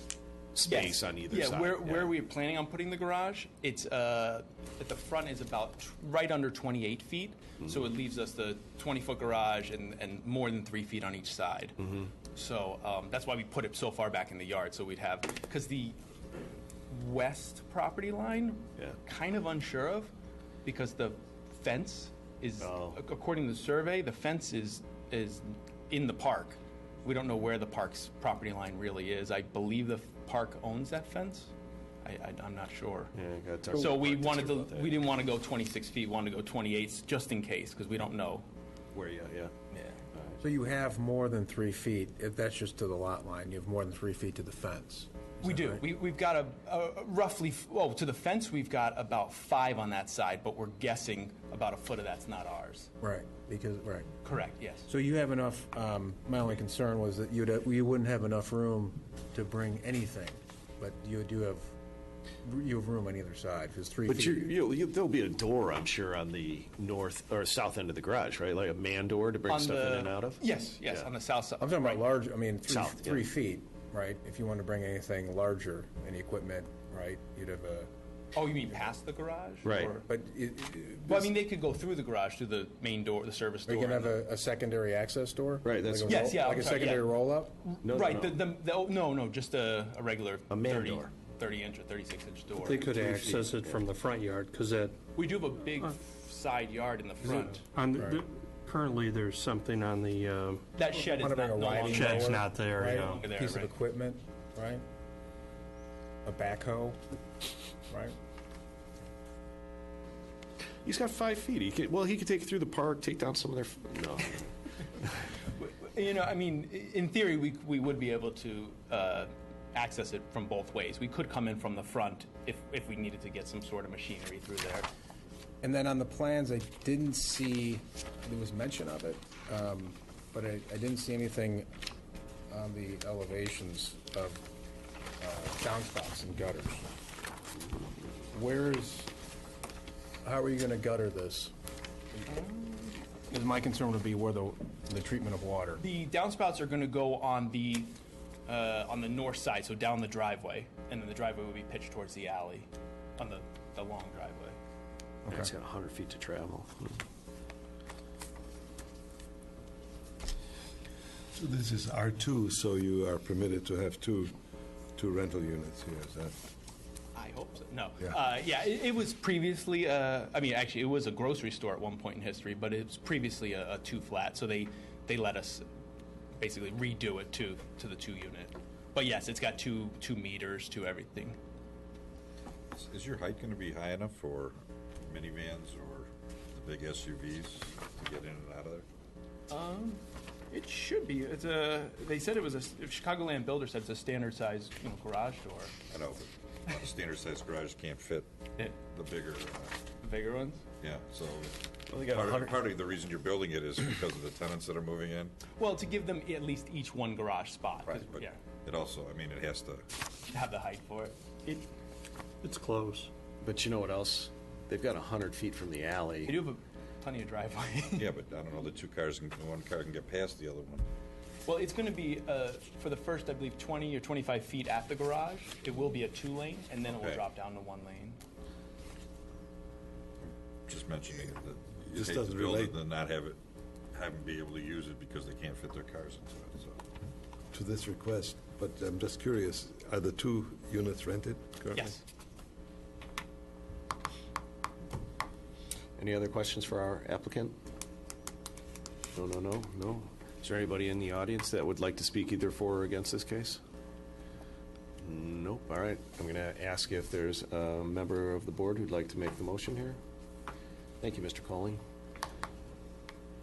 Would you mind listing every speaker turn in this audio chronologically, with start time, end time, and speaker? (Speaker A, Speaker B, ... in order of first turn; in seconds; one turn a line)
Speaker A: 0.6-2.1
Speaker B: 0.6-11.8
Speaker B: 12.3-16.0
Speaker B: 16.9-20.1
Speaker B: 20.6-31.5
Speaker A: 22.6-23.0
Speaker B: 32.0-33.1
Speaker A: 33.1-35.1
Speaker B: 33.7-38.5
Speaker A: 38.9-39.5
Speaker C: 40.4-45.8
Speaker B: 45.4-52.9
Speaker C: 53.0-54.1
Speaker B: 54.2-54.9
Speaker C: 54.9-61.7
Speaker C: 62.4-64.5
Speaker A: 64.1-71.1
Speaker B: 69.4-72.0
Speaker C: 71.6-77.9
Speaker A: 72.7-73.3
Speaker B: 78.3-80.1
Speaker A: 79.6-80.0
Speaker C: 80.1-81.3
Speaker B: 81.1-84.1
Speaker C: 83.7-87.6
Speaker A: 85.6-86.3
Speaker B: 86.1-87.1
Speaker B: 87.6-93.0
Speaker A: 87.8-88.4
Speaker A: 90.5-91.2
Speaker D: 92.6-95.0
Speaker A: 93.2-93.8
Speaker B: 95.2-97.6
Speaker D: 97.3-100.6
Speaker C: 98.0-98.2
Speaker B: 100.8-102.4
Speaker C: 101.0-104.8
Speaker D: 101.8-103.2
Speaker B: 103.1-103.7
Speaker C: 106.2-107.0
Speaker C: 107.9-108.1
Speaker A: 110.8-114.5
Speaker B: 115.5-124.9
Speaker C: 125.6-131.7
Speaker C: 132.5-134.4
Speaker C: 135.2-136.9
Speaker C: 138.2-139.1
Speaker C: 140.2-141.5
Speaker C: 142.1-142.5
Speaker B: 142.4-142.9
Speaker C: 143.3-145.8
Speaker B: 145.8-148.0
Speaker B: 148.5-154.6
Speaker A: 155.3-157.0
Speaker E: 161.4-164.3
Speaker E: 165.0-166.3
Speaker B: 167.2-175.7
Speaker B: 176.4-181.4
Speaker F: 182.7-188.8
Speaker B: 189.5-195.8
Speaker F: 195.9-199.8
Speaker B: 200.0-200.6
Speaker F: 200.8-205.3
Speaker A: 201.9-202.6
Speaker B: 205.6-208.4
Speaker F: 207.9-209.9
Speaker B: 210.3-211.6
Speaker D: 212.4-213.1
Speaker A: 213.4-216.4
Speaker B: 216.3-218.1
Speaker F: 217.9-220.9
Speaker B: 221.5-228.2
Speaker F: 226.9-227.2
Speaker F: 230.7-233.4
Speaker E: 231.9-232.8
Speaker F: 233.9-236.8
Speaker E: 237.5-241.9
Speaker B: 241.7-242.0
Speaker A: 246.0-247.6
Speaker A: 249.1-253.6
Speaker A: 255.0-260.0
Speaker A: 261.0-261.8